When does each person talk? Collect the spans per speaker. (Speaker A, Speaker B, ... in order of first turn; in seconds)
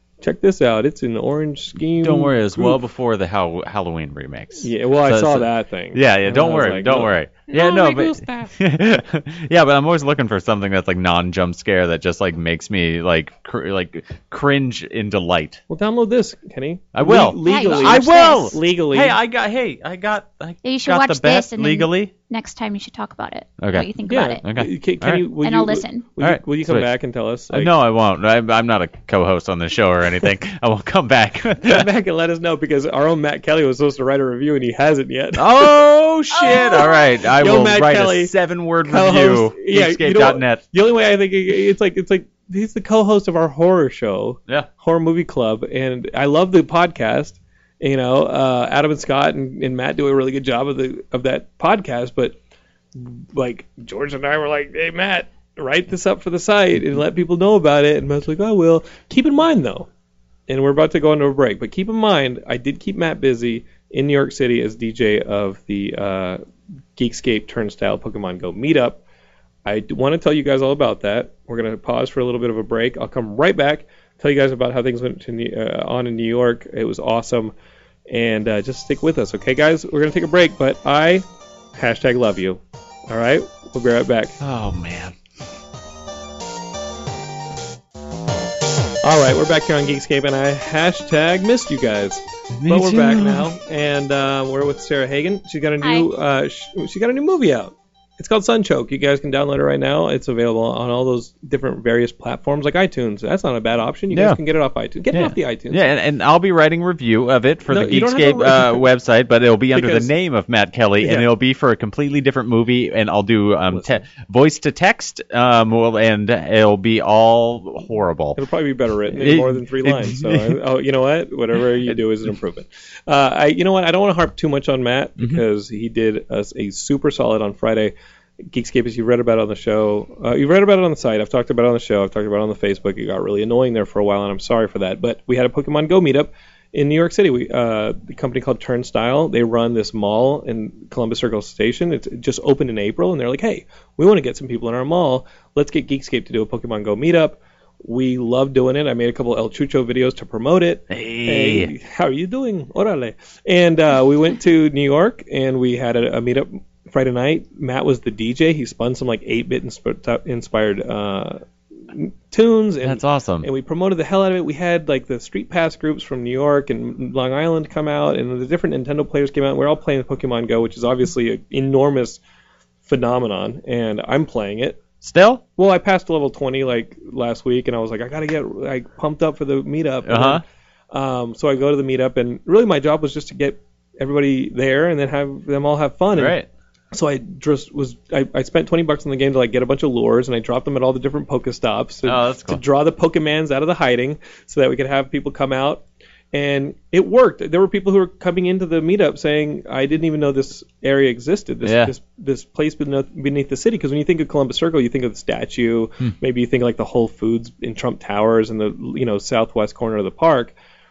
Speaker A: 0.2-2.8, 4.6-8.5, 15.7-19.1, 24.1-27.7, 31.6-35.7, 36.4-38.3, 38.8-52.4, 52.9-59.9, 60.5-66.4, 67.0-69.0, 69.6-77.5, 78.1-84.4, 89.0-105.8, 107.7-108.8, 109.7-110.1, 111.0-111.3, 113.7-114.0, 118.3-127.9, 128.4-172.2, 172.8-174.8, 175.6-186.3, 186.9-210.5
Speaker B: 2.0-15.6, 16.9-22.1, 23.6-23.9, 24.4-25.2, 26.2-26.9, 27.5-31.9, 35.4-40.6, 84.4-85.2, 92.6-93.5, 104.1-104.4, 105.1-118.4, 119.1-120.6, 150.9-151.7, 162.8-163.5, 175.0-175.4, 180.0-180.4, 186.1-186.5, 192.1-192.6, 201.6-201.9
Speaker C: 17.4-18.6, 20.6-24.4, 25.4-26.0, 36.3-37.1, 95.8-96.1